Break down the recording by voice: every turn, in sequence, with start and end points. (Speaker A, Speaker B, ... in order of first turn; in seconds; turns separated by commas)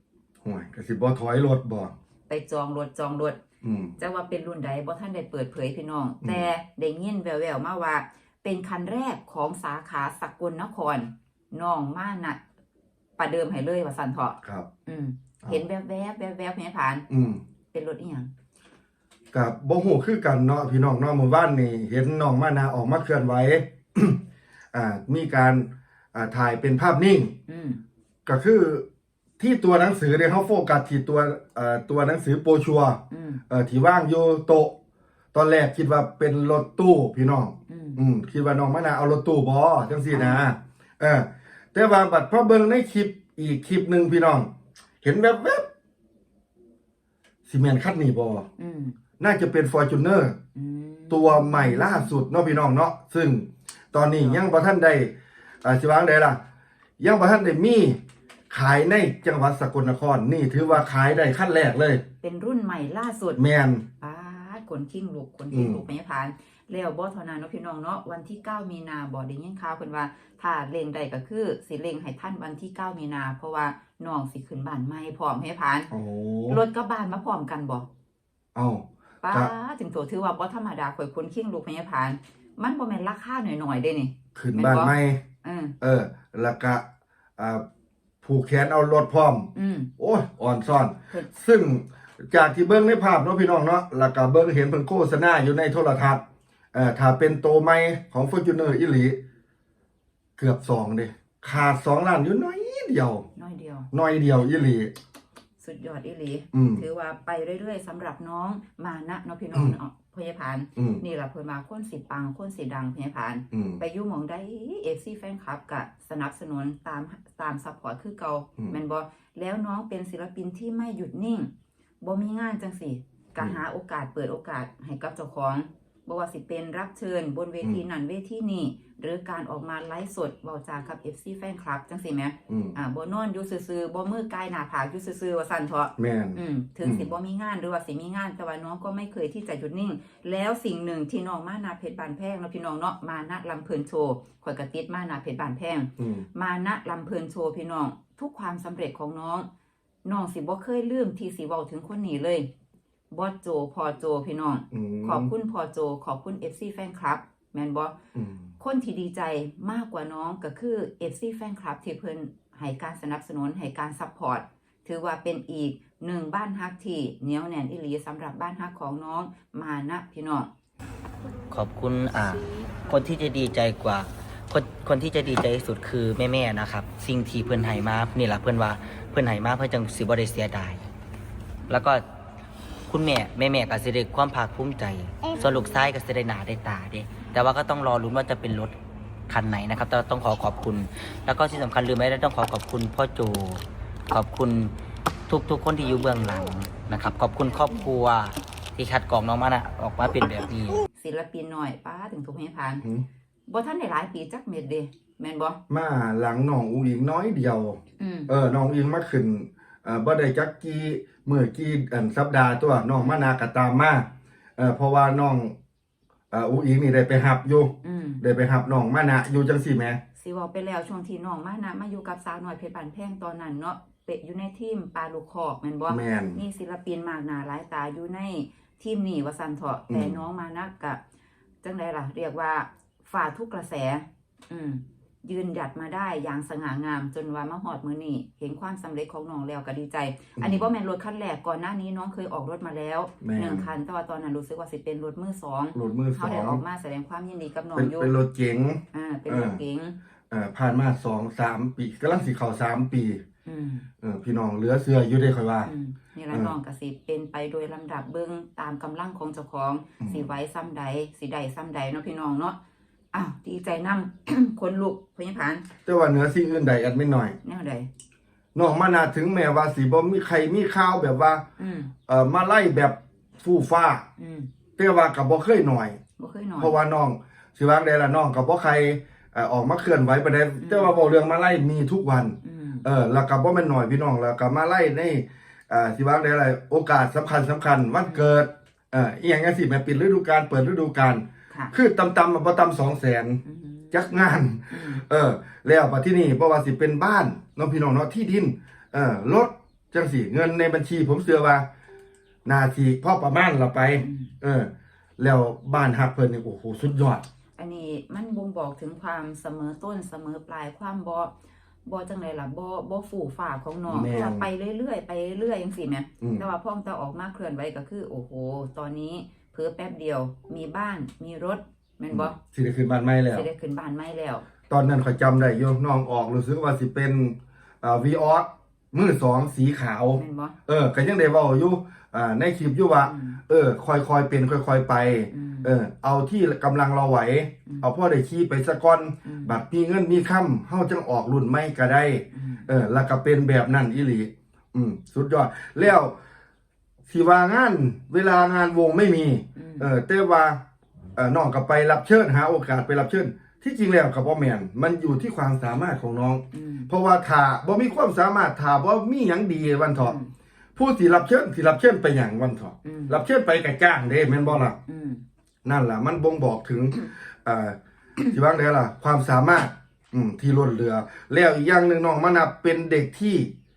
Speaker A: 0.4-1.9, Speaker B: 2.3-3.4, Speaker A: 3.6-4.0, Speaker B: 4.0-12.4, Speaker A: 6.2-6.5, Speaker B: 13.2-17.1, Speaker A: 14.4-14.7, Speaker A: 17.1-17.4, Speaker B: 17.7-18.3, Speaker A: 19.3-24.2, Speaker A: 24.7-27.4, Speaker B: 27.5-27.8, Speaker A: 28.2-28.8, Speaker A: 29.4-34.8, Speaker B: 33.1-33.4, Speaker A: 35.3-44.5, Speaker B: 37.7-38.0, Speaker B: 40.1-40.4, Speaker A: 45.0-45.7, Speaker A: 47.5-48.5, Speaker B: 48.6-49.0, Speaker A: 49.2-50.4, Speaker B: 50.5-52.1, Speaker A: 51.1-56.4, Speaker B: 54.1-54.4, Speaker A: 57.0-58.0, Speaker A: 58.5-62.0, Speaker B: 62.2-63.4, Speaker A: 63.4-63.8, Speaker B: 64.0-75.9, Speaker A: 65.5-65.8, Speaker A: 75.9-76.6, Speaker B: 76.5-77.9, Speaker A: 78.5-79.5, Speaker B: 79.2-85.7, Speaker A: 84.3-85.2, Speaker A: 85.8-86.8, Speaker A: 87.4-87.6, Speaker A: 88.2-99.2, Speaker B: 89.5-89.9, Speaker A: 100.4-103.3, Speaker B: 103.3-103.9, Speaker A: 103.9-104.9, Speaker B: 105.6-121.5, Speaker A: 106.5-106.8, Speaker A: 110.8-111.0, Speaker A: 113.5-113.8, Speaker B: 122.0-149.5, Speaker A: 132.5-132.8, Speaker A: 136.0-137.1, Speaker A: 146.0-146.2, Speaker B: 150.0-152.5, Speaker B: 153.1-157.9, Speaker A: 154.7-155.3, Speaker A: 158.1-158.5, Speaker B: 158.6-170.5, Speaker C: 171.5-180.8, Speaker C: 181.7-182.0, Speaker C: 182.9-188.7, Speaker C: 189.3-194.7, Speaker C: 195.3-200.8, Speaker B: 200.9-202.8, Speaker B: 203.5-205.6, Speaker A: 205.7-215.5, Speaker B: 208.0-208.3, Speaker A: 216.3-220.0, Speaker B: 217.8-218.2, Speaker B: 220.2-231.0, Speaker A: 225.9-226.4, Speaker A: 229.9-230.2, Speaker B: 231.6-248.1, Speaker A: 240.4-240.6, Speaker A: 243.2-243.7, Speaker A: 245.7-246.6, Speaker A: 247.7-249.6, Speaker B: 248.9-249.9, Speaker A: 250.3-253.2, Speaker B: 253.4-253.9, Speaker A: 254.0-255.7, Speaker B: 255.6-262.6, Speaker A: 260.0-260.3, Speaker B: 263.1-265.7, Speaker A: 265.9-267.4, Speaker B: 267.4-267.9, Speaker A: 268.5-271.4, Speaker B: 271.6-271.9, Speaker A: 272.1-274.1, Speaker B: 274.2-274.5, Speaker A: 274.8-276.0, Speaker B: 276.2-276.7, Speaker A: 276.6-301.6, Speaker B: 280.6-280.9, Speaker B: 282.4-282.9, Speaker B: 293.4-294.1, Speaker B: 294.7-295.0, Speaker A: 302.4-307.2, Speaker B: 304.0-304.3, Speaker B: 307.6-311.3, Speaker B: 311.9-322.4, Speaker A: 313.9-314.5, Speaker A: 316.2-316.4, Speaker A: 322.1-323.5, Speaker B: 323.3-324.5, Speaker A: 324.7-346.1, Speaker B: 330.1-330.6, Speaker B: 333.0-333.4, Speaker B: 335.3-335.7, Speaker B: 339.2-339.5, Speaker B: 342.3-342.7, Speaker A: 347.1-350.6, Speaker B: 349.6-349.9, Speaker A: 351.1-360.2, Speaker B: 356.5-356.9, Speaker B: 360.0-360.3, Speaker A: 360.8-364.8, Speaker B: 362.8-363.2, Speaker B: 364.4-365.2, Speaker A: 365.6-367.8, Speaker A: 368.3-373.5